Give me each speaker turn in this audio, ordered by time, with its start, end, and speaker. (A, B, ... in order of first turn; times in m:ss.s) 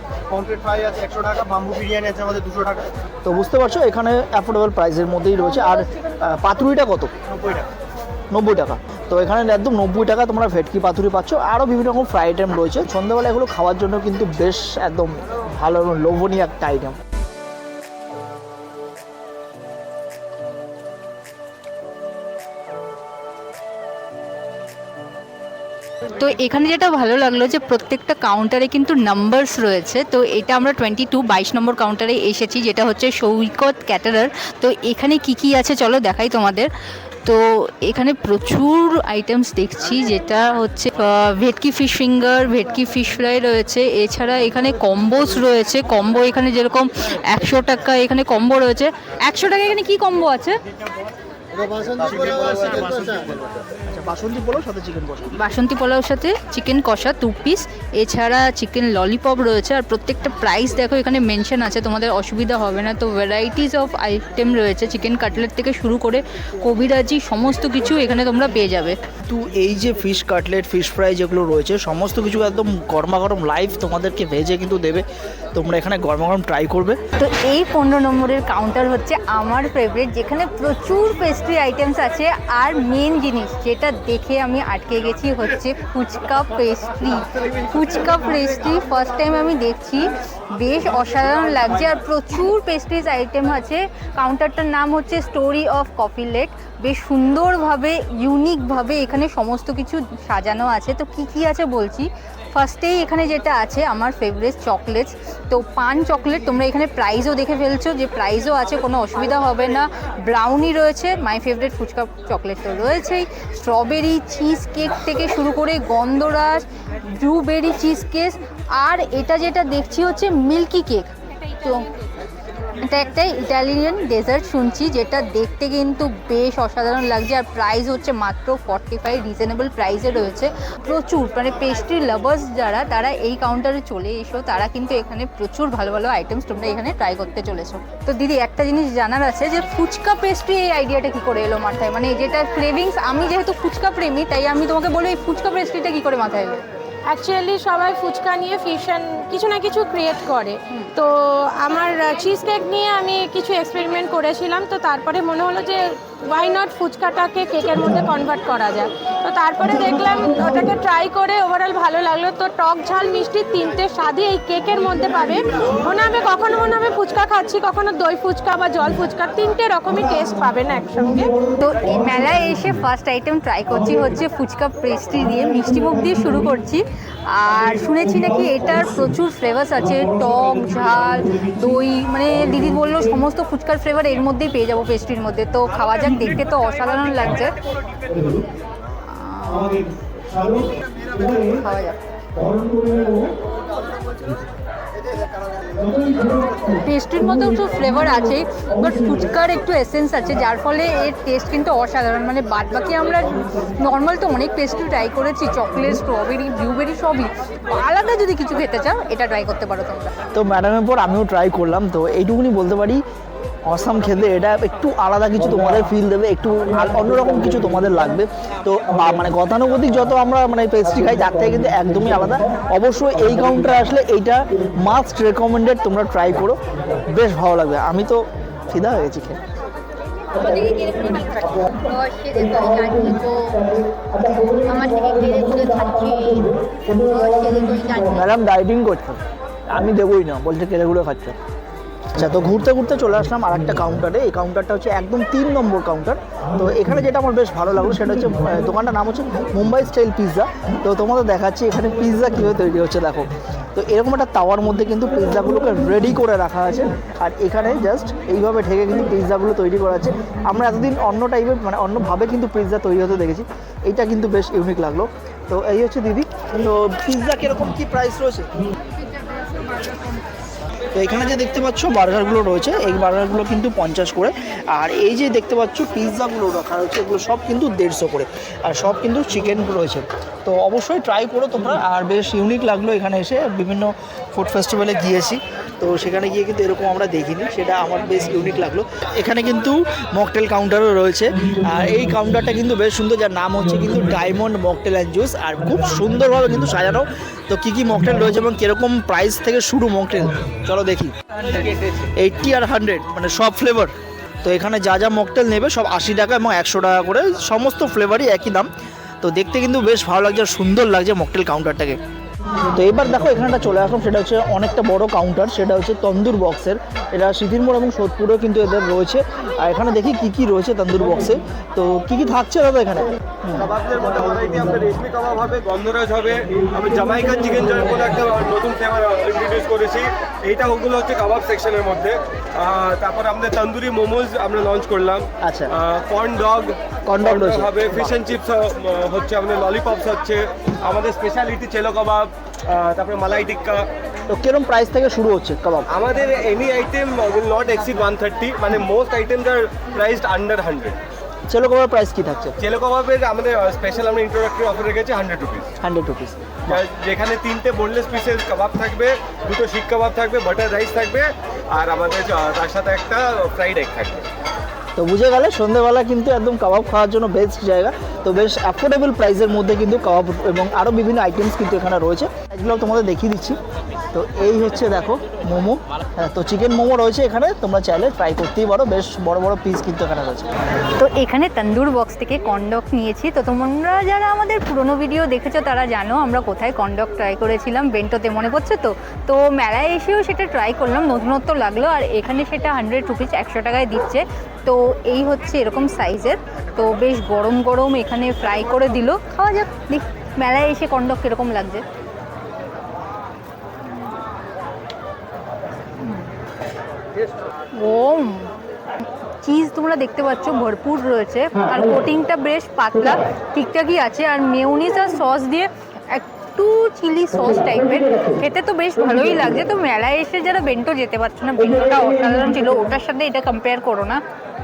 0:00.3-0:02.9 A
0:03.2-0:07.1 B
0:07.3-0:07.7 A
0:08.3-0:17.0 B
0:26.2-0:36.7 C
0:37.2-0:50.6 C
0:52.0-0:53.3 B
0:53.8-0:55.3 B
0:55.3-1:09.0 C
1:09.3-1:17.0 B
1:17.2-2:01.8 C
2:02.8-2:26.6 C
2:27.1-2:51.3 D
2:51.6-3:07.5 C
3:09.0-3:09.9 C
3:10.9-3:12.0 C
3:16.6-3:30.1 C
3:30.3-3:33.0 B
3:33.7-3:49.4 B
3:50.3-3:53.6 C
3:54.1-3:58.2 C
3:58.1-4:01.4 B
4:02.1-4:28.5 B
4:30.9-5:08.7 B
5:09.2-5:12.0 B
5:12.7-5:23.6 B
5:23.5-5:43.9 E
5:35.4-5:35.7 B
5:37.1-5:38.2 B
5:44.3-5:45.9 B
5:45.9-5:51.0 E
5:51.5-5:52.5 B
5:52.6-5:55.7 E
5:55.8-5:56.8 B
5:56.7-6:04.2 E
6:05.0-6:13.6 B
6:14.1-6:20.5 B
6:21.0-6:41.8 C
6:46.0-6:46.3 C
6:47.7-6:48.5 C
6:49.4-7:04.2 C